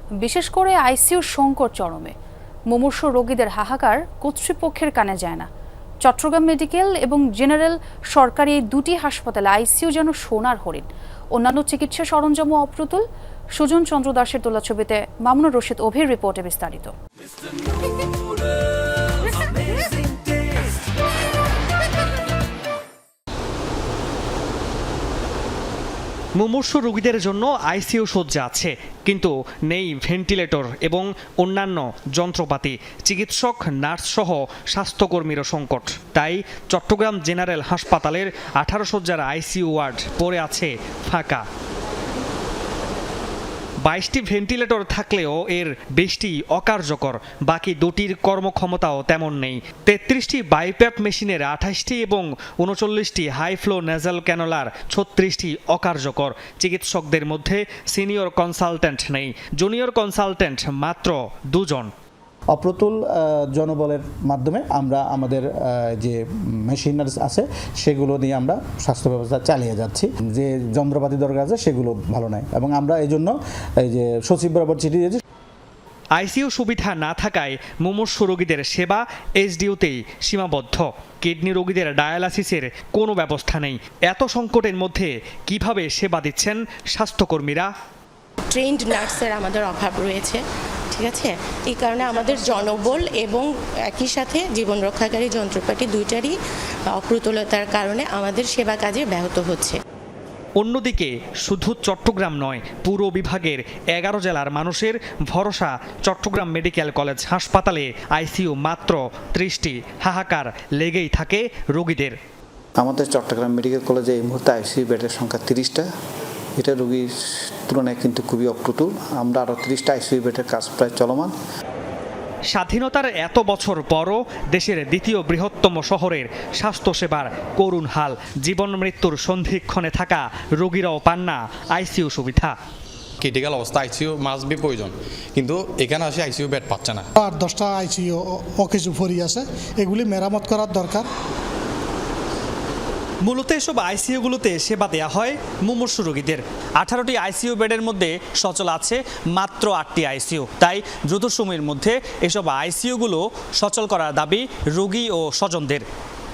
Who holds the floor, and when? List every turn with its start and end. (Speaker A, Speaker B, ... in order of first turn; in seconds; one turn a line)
Speaker A: 0.2-2.1
Speaker A: 2.7-5.5
Speaker A: 6.0-13.0
Speaker A: 13.6-16.9
Speaker B: 26.4-41.5
Speaker B: 43.8-61.9
Speaker C: 62.5-75.2
Speaker B: 76.2-87.7
Speaker D: 88.5-96.4
Speaker D: 96.9-99.8
Speaker B: 100.6-112.2
Speaker E: 112.8-115.9
Speaker E: 116.6-121.3
Speaker B: 122.5-132.6
Speaker F: 133.2-137.1
Speaker G: 137.2-141.1
Speaker B: 143.2-155.8